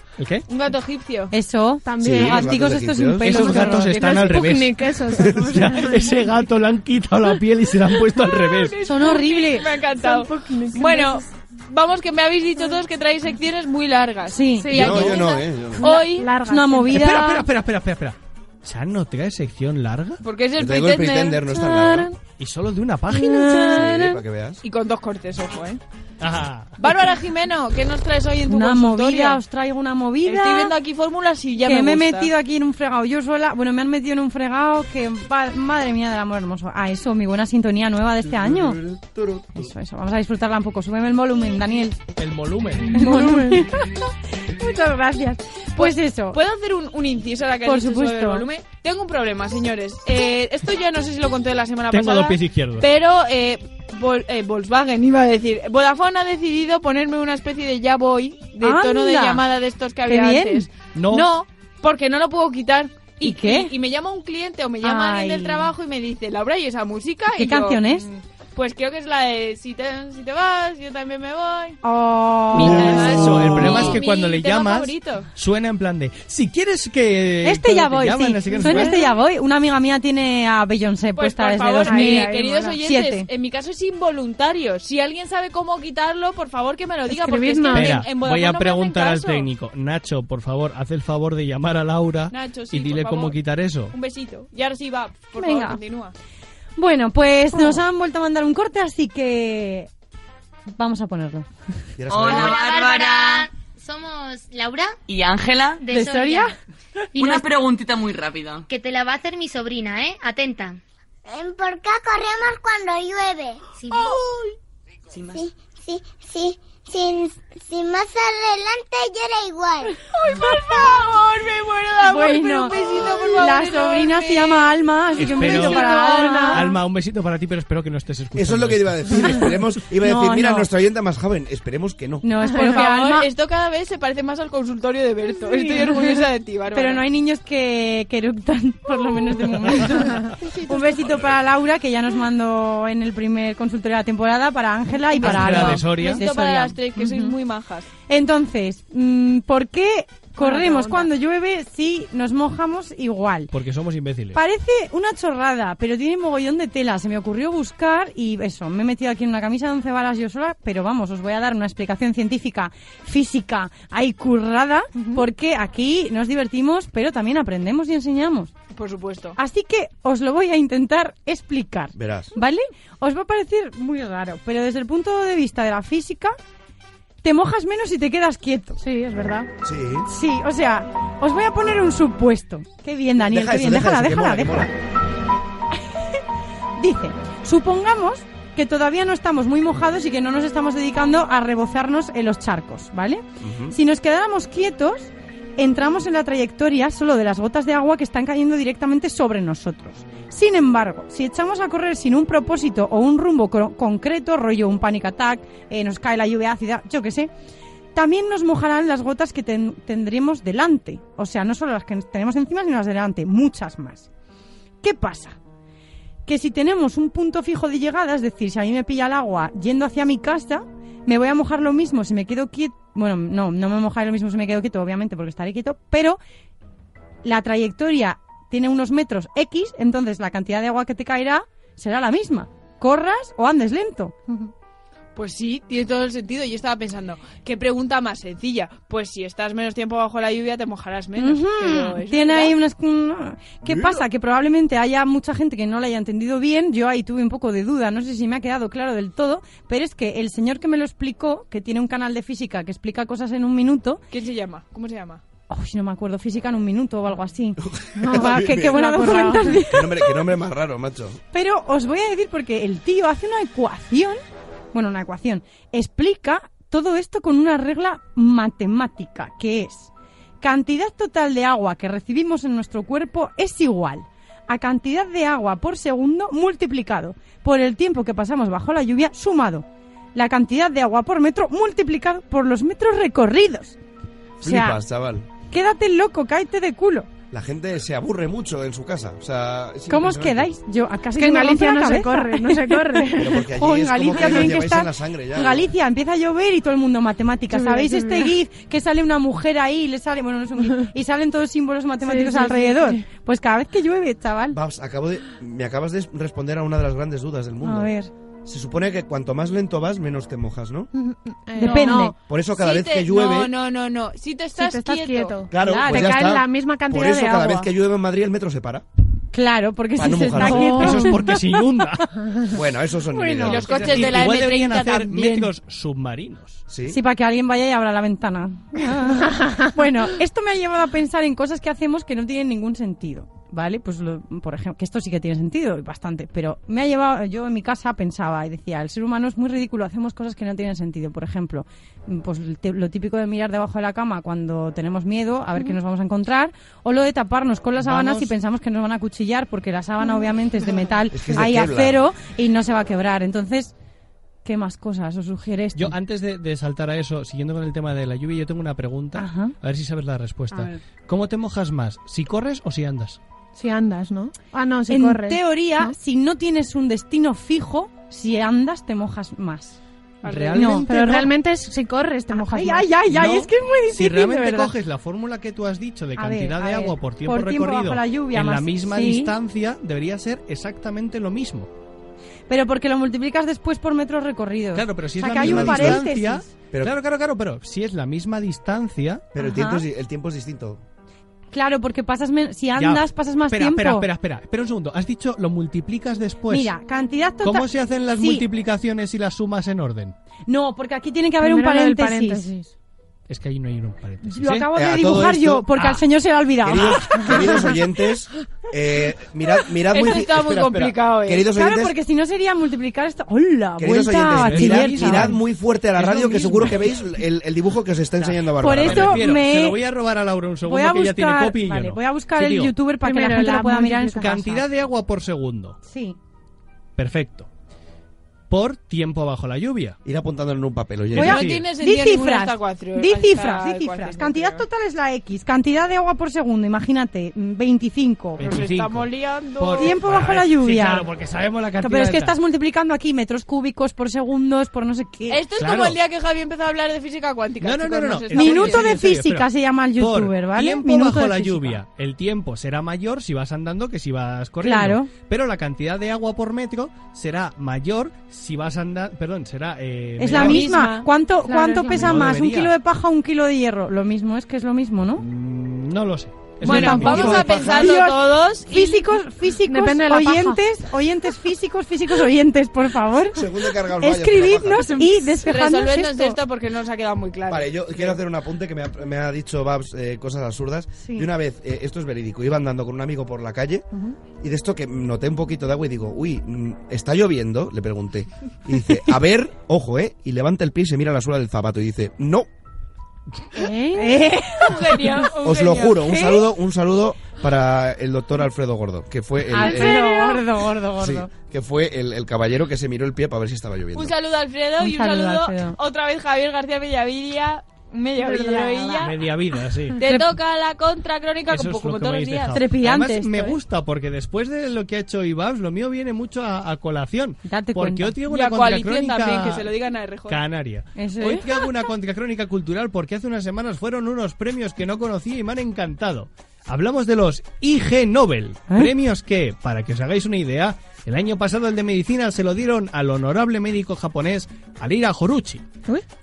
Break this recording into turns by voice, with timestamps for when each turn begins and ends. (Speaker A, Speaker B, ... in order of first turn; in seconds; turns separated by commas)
Speaker A: 0.2-0.5, Speaker B: 0.5-1.3, Speaker C: 1.3-4.3, Speaker D: 1.8-2.5, Speaker E: 2.0-3.6, Speaker A: 3.2-8.8, Speaker D: 3.5-6.2, Speaker E: 5.2-5.5, Speaker B: 8.1-16.4, Speaker C: 8.8-9.7, Speaker D: 9.8-11.2, Speaker C: 14.3-14.8, Speaker D: 14.6-17.0, Speaker E: 14.7-15.9, Speaker C: 16.4-17.5, Speaker A: 16.9-20.2, Speaker B: 20.2-21.4, Speaker E: 20.6-22.1, Speaker D: 21.8-22.1, Speaker A: 22.4-23.9, Speaker C: 23.1-24.2, Speaker E: 23.7-24.6, Speaker B: 24.6-25.8, Speaker A: 26.2-26.9, Speaker B: 26.8-29.4, Speaker C: 28.5-30.7, Speaker B: 30.2-32.3, Speaker C: 31.6-38.8, Speaker E: 38.4-39.6, Speaker C: 39.5-42.0, Speaker A: 42.2-43.0, Speaker D: 42.9-43.7, Speaker C: 42.9-44.0, Speaker C: 44.5-46.4, Speaker B: 45.7-71.8, Speaker C: 47.6-48.4, Speaker A: 51.9-52.9, Speaker C: 58.6-59.4, Speaker C: 60.0-60.7, Speaker A: 60.9-61.3, Speaker C: 63.2-63.7, Speaker C: 64.8-65.7, Speaker C: 67.3-68.1, Speaker C: 71.8-73.4, Speaker B: 72.5-75.3, Speaker A: 72.5-79.0, Speaker E: 72.9-73.9, Speaker C: 77.4-83.3, Speaker D: 78.5-79.1, Speaker B: 81.2-89.5, Speaker D: 81.8-82.8, Speaker D: 87.1-88.0, Speaker A: 87.7-93.9, Speaker B: 92.3-93.4, Speaker B: 93.9-96.1, Speaker C: 95.4-95.8, Speaker C: 96.8-99.9, Speaker C: 100.7-101.5, Speaker E: 102.0-102.6, Speaker F: 102.1-103.5, Speaker G: 102.2-104.9, Speaker F: 105.1-105.9, Speaker G: 105.8-106.5, Speaker C: 105.9-106.5, Speaker G: 107.1-107.4, Speaker F: 107.1-108.6, Speaker G: 108.7-110.8, Speaker H: 111.3-113.6, Speaker G: 113.8-114.2, Speaker F: 115.1-115.4, Speaker H: 115.2-120.0, Speaker B: 120.1-124.7, Speaker C: 122.0-126.7, Speaker A: 125.2-125.9, Speaker B: 125.5-126.6, Speaker D: 125.7-126.6, Speaker A: 126.5-129.6, Speaker E: 128.3-132.3, Speaker C: 129.9-130.7, Speaker C: 132.2-133.3, Speaker B: 132.5-137.0, Speaker C: 135.7-136.2, Speaker C: 136.7-147.3, Speaker D: 140.1-140.8, Speaker A: 145.2-146.2, Speaker B: 145.3-147.9, Speaker C: 148.1-153.5, Speaker D: 150.3-151.1, Speaker A: 153.5-154.4, Speaker C: 154.3-168.5, Speaker D: 164.9-165.2, Speaker B: 168.7-169.4, Speaker C: 169.3-176.3, Speaker E: 171.9-172.3, Speaker C: 177.2-178.8, Speaker D: 178.8-179.5, Speaker E: 179.6-180.1, Speaker C: 180.1-184.7, Speaker E: 183.2-184.7, Speaker C: 186.8-207.3, Speaker E: 193.4-193.8, Speaker C: 207.9-214.1, Speaker C: 214.8-215.4, Speaker C: 216.2-226.2, Speaker C: 227.2-234.1, Speaker B: 235.1-242.6, Speaker C: 241.2-254.0, Speaker B: 254.1-255.2, Speaker C: 255.5-260.3, Speaker E: 257.6-258.8, Speaker D: 258.0-259.6, Speaker E: 259.6-261.2, Speaker C: 261.3-264.2, Speaker C: 264.7-269.9, Speaker C: 270.4-279.6, Speaker C: 280.1-283.8, Speaker C: 284.4-284.8, Speaker E: 284.4-285.3, Speaker C: 285.5-287.1, Speaker E: 287.3-290.5, Speaker C: 289.9-304.6, Speaker D: 291.1-293.5, Speaker E: 293.2-295.7, Speaker D: 294.1-294.5, Speaker D: 297.5-298.3, Speaker D: 302.0-303.0, Speaker E: 304.5-307.9, Speaker C: 307.6-308.1, Speaker E: 308.4-310.9, Speaker D: 310.9-312.1, Speaker B: 311.6-312.0, Speaker C: 311.6-312.1, Speaker E: 312.2-313.5, Speaker B: 312.5-315.4, Speaker D: 314.6-317.7, Speaker E: 315.5-318.8, Speaker C: 315.6-316.3, Speaker C: 319.3-321.8, Speaker E: 319.9-320.9, Speaker A: 320.4-322.1, Speaker D: 320.5-321.1, Speaker E: 322.5-324.2, Speaker C: 323.1-323.6, Speaker B: 323.4-325.5, Speaker A: 323.6-326.6, Speaker E: 326.7-327.0, Speaker C: 326.9-353.7, Speaker A: 347.8-348.3, Speaker E: 351.1-352.0, Speaker C: 354.4-355.9, Speaker A: 355.7-363.2, Speaker C: 359.1-359.6, Speaker D: 363.5-365.9, Speaker C: 364.9-369.8, Speaker B: 370.2-370.8, Speaker A: 370.2-370.9, Speaker C: 370.5-371.3, Speaker D: 370.8-373.0, Speaker C: 372.3-374.7, Speaker A: 373.1-381.7, Speaker C: 376.1-379.3, Speaker C: 382.5-386.4, Speaker A: 384.7-389.3, Speaker E: 385.4-386.0, Speaker E: 389.3-390.8, Speaker C: 389.4-389.8, Speaker C: 391.5-394.1, Speaker A: 392.8-396.7, Speaker C: 396.5-398.4, Speaker A: 397.4-400.1, Speaker C: 400.5-402.5, Speaker D: 401.4-402.7, Speaker A: 403.3-404.7, Speaker C: 404.2-407.8, Speaker E: 404.7-405.6, Speaker A: 405.7-406.0, Speaker E: 406.6-411.9, Speaker B: 409.9-411.5, Speaker C: 411.5-415.4, Speaker E: 413.8-419.2, Speaker A: 414.4-415.4, Speaker A: 416.0-416.8, Speaker C: 416.2-416.9, Speaker A: 418.2-422.7, Speaker C: 418.6-419.8, Speaker C: 420.6-424.7, Speaker D: 423.0-424.3, Speaker A: 424.2-425.8, Speaker C: 425.8-426.2, Speaker A: 427.0-427.5, Speaker A: 428.5-430.0, Speaker E: 430.0-431.4, Speaker A: 431.1-431.7, Speaker C: 431.2-438.4, Speaker B: 431.2-434.6, Speaker A: 438.4-442.4, Speaker B: 438.4-439.9, Speaker C: 439.7-441.1, Speaker C: 441.8-445.4, Speaker B: 445.3-449.0, Speaker A: 445.5-446.0, Speaker A: 447.6-460.7, Speaker C: 448.3-451.8, Speaker C: 454.6-455.1, Speaker C: 460.2-465.2, Speaker B: 460.2-461.1, Speaker D: 461.4-462.2, Speaker A: 461.9-462.7, Speaker A: 465.2-467.5, Speaker B: 466.6-469.2, Speaker C: 466.6-476.4, Speaker E: 467.0-468.0, Speaker D: 469.6-470.6, Speaker E: 473.3-475.0, Speaker B: 475.4-478.2, Speaker E: 477.5-483.8, Speaker C: 481.0-481.3, Speaker E: 484.4-492.4, Speaker D: 493.5-494.1, Speaker C: 493.7-495.2, Speaker B: 494.5-496.1, Speaker E: 495.4-500.1, Speaker C: 496.0-496.5, Speaker C: 499.5-501.3, Speaker B: 499.6-500.3, Speaker E: 501.0-504.1, Speaker B: 503.9-509.2, Speaker C: 504.8-505.8, Speaker C: 508.2-509.0, Speaker A: 508.9-510.0, Speaker B: 510.0-512.6, Speaker C: 510.0-510.3, Speaker A: 511.5-519.7, Speaker C: 512.5-513.6, Speaker C: 517.4-518.2, Speaker B: 518.3-520.4, Speaker A: 520.3-535.7, Speaker C: 520.9-521.7